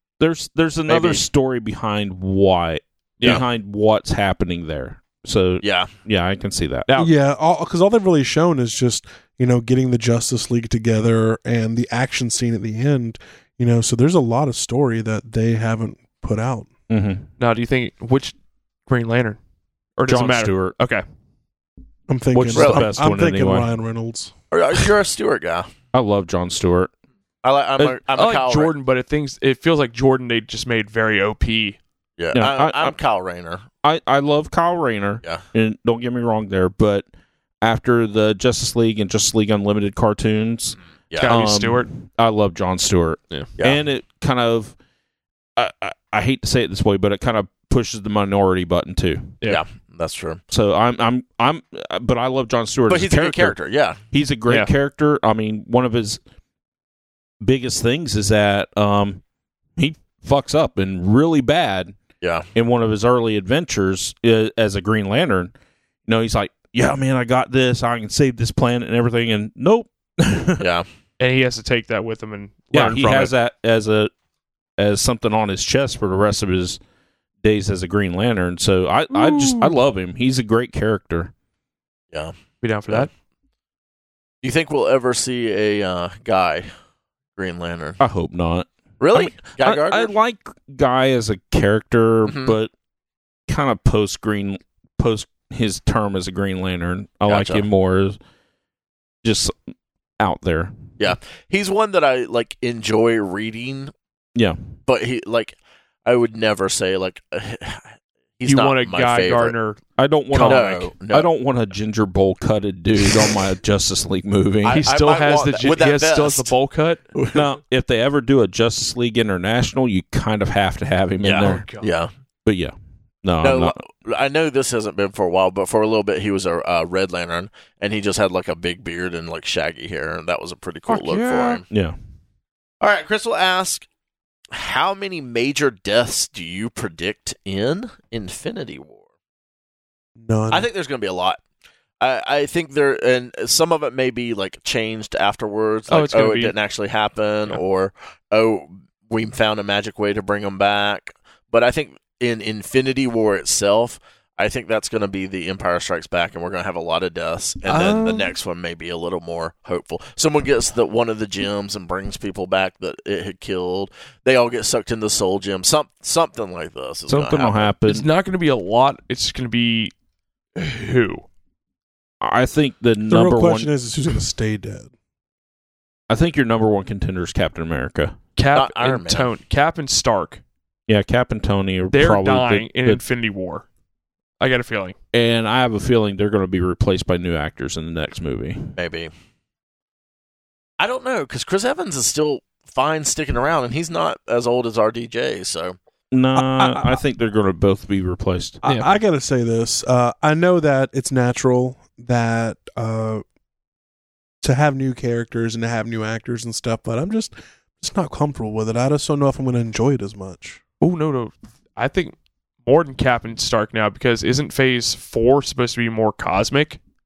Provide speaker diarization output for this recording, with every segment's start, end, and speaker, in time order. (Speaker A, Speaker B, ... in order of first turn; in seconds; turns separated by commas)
Speaker A: 0.2-6.9, Speaker B: 0.9-1.2, Speaker B: 5.6-5.9, Speaker C: 7.0-16.7, Speaker A: 16.9-17.3, Speaker D: 17.4-18.4, Speaker D: 18.9-19.4, Speaker D: 20.0-21.0, Speaker A: 20.1-20.8, Speaker C: 22.1-24.3, Speaker A: 22.3-23.7, Speaker B: 22.5-22.9, Speaker B: 24.5-25.7, Speaker A: 25.9-26.9, Speaker B: 27.4-28.7, Speaker D: 27.8-31.8, Speaker B: 32.2-33.7, Speaker A: 32.3-32.9, Speaker A: 33.8-37.1, Speaker A: 37.6-44.8, Speaker D: 41.2-41.9, Speaker A: 45.6-49.4, Speaker B: 49.5-50.4, Speaker A: 50.5-53.6, Speaker B: 52.9-54.0, Speaker A: 54.1-56.2, Speaker A: 57.4-59.2, Speaker A: 59.8-62.0, Speaker B: 62.2-62.5, Speaker A: 62.5-65.5, Speaker A: 66.1-70.7, Speaker B: 70.6-70.9, Speaker D: 71.2-73.3, Speaker A: 72.7-74.1, Speaker A: 74.8-76.8, Speaker A: 77.4-81.3, Speaker D: 79.1-79.7, Speaker D: 82.6-83.1, Speaker B: 84.4-86.7, Speaker B: 87.4-88.0, Speaker A: 88.0-92.7, Speaker B: 89.0-90.1, Speaker B: 92.3-92.5, Speaker A: 93.5-98.2, Speaker B: 97.3-97.7, Speaker A: 99.2-99.5, Speaker A: 100.2-100.8, Speaker B: 101.0-103.9, Speaker B: 104.9-107.9, Speaker B: 108.4-109.5, Speaker D: 108.4-109.8, Speaker A: 110.0-114.8, Speaker D: 110.3-110.6, Speaker B: 110.3-111.3, Speaker B: 114.6-116.5, Speaker D: 114.7-117.1, Speaker A: 117.3-121.7, Speaker B: 121.2-122.1, Speaker D: 121.4-121.9, Speaker A: 122.5-123.8, Speaker B: 123.4-131.7, Speaker D: 130.9-131.6, Speaker A: 131.7-132.0, Speaker B: 132.8-133.9, Speaker B: 134.5-139.0, Speaker C: 140.2-140.7, Speaker B: 140.5-141.4, Speaker B: 142.0-167.7, Speaker D: 145.9-146.5, Speaker C: 157.8-158.1, Speaker A: 167.1-168.1, Speaker D: 167.8-169.9, Speaker D: 170.6-171.3, Speaker A: 172.2-173.7, Speaker C: 173.1-174.9, Speaker A: 176.1-178.2, Speaker D: 178.4-180.4, Speaker B: 178.5-179.3, Speaker A: 180.9-183.0, Speaker D: 181.9-183.7, Speaker D: 184.4-185.0, Speaker A: 185.1-188.8, Speaker B: 188.8-189.1, Speaker B: 190.8-195.8, Speaker A: 196.1-198.6, Speaker C: 196.4-197.0, Speaker C: 198.6-203.2, Speaker C: 204.4-210.6, Speaker D: 210.8-216.8